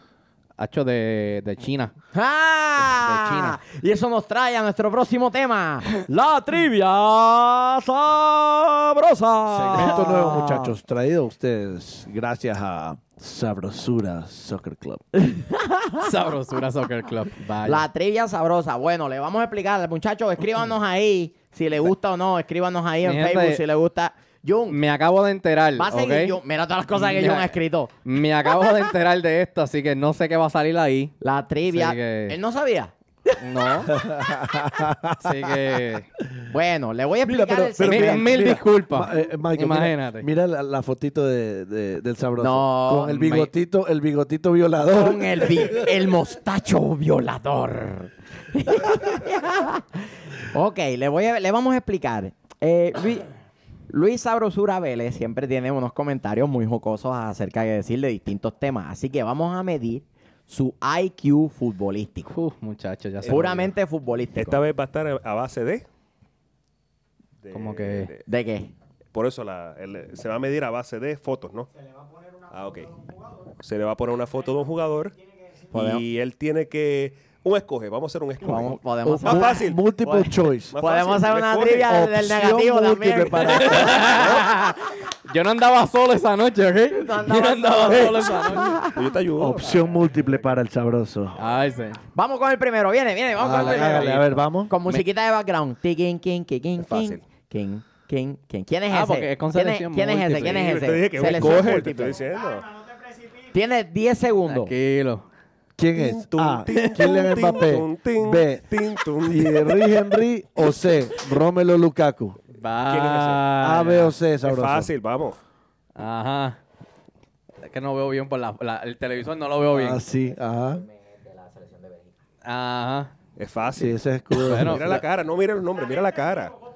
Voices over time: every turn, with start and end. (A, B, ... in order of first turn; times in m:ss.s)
0:00.6-0:01.9 A
0:02.1-0:10.7 B
0:03.0-0:03.6 A
0:09.5-0:15.0 C
0:15.2-0:16.1 B
0:16.0-0:17.8 A
0:17.6-0:24.8 B
0:23.0-0:23.6 A
0:24.7-0:26.4 A
0:25.8-0:27.9 B
0:27.0-0:27.5 A
0:28.0-0:31.2 A
0:31.2-0:32.9 B
0:31.7-0:32.4 A
0:33.4-0:34.0 A
0:33.9-0:35.6 C
0:35.2-0:36.1 A
0:36.5-0:38.5 B
0:37.2-0:45.9 C
0:37.8-0:40.3 A
0:42.4-0:43.5 B
0:44.9-0:53.3 B
0:53.9-1:02.3 B
1:02.3-1:03.7 A
1:03.2-1:04.7 B
1:04.4-1:05.9 D
1:07.4-1:08.2 D
1:07.5-1:08.1 A
1:08.3-1:08.7 B
1:09.1-1:11.7 D
1:12.5-1:15.2 D
1:15.7-1:19.8 D
1:15.7-1:16.0 B
1:18.4-1:24.5 B
1:19.0-1:20.8 C
1:20.7-1:21.9 D
1:21.8-1:24.5 C
1:23.4-1:28.8 A
1:27.0-1:29.0 B
1:28.9-1:30.4 D
1:29.4-1:31.4 C
1:31.4-1:32.0 A
1:32.1-1:34.2 B
1:33.4-1:34.7 C
1:33.5-1:35.0 A
1:34.7-1:42.2 B
1:36.8-1:37.2 D
1:38.9-1:40.8 A
1:40.5-1:42.7 D
1:43.5-1:44.7 B
1:44.5-1:45.3 A
1:45.8-1:48.7 C
1:46.0-1:49.8 D
1:46.8-1:47.2 A
1:49.2-1:52.4 C
1:52.5-1:54.2 A
1:52.9-1:53.4 D
1:53.6-1:54.9 C
1:54.4-1:55.4 D
1:56.0-1:56.6 A
1:57.6-2:00.0 A
1:59.7-2:00.8 C
2:01.1-2:02.0 B
2:02.4-2:03.1 A
2:03.4-2:06.6 D
2:03.8-2:05.0 C
2:04.4-2:05.0 A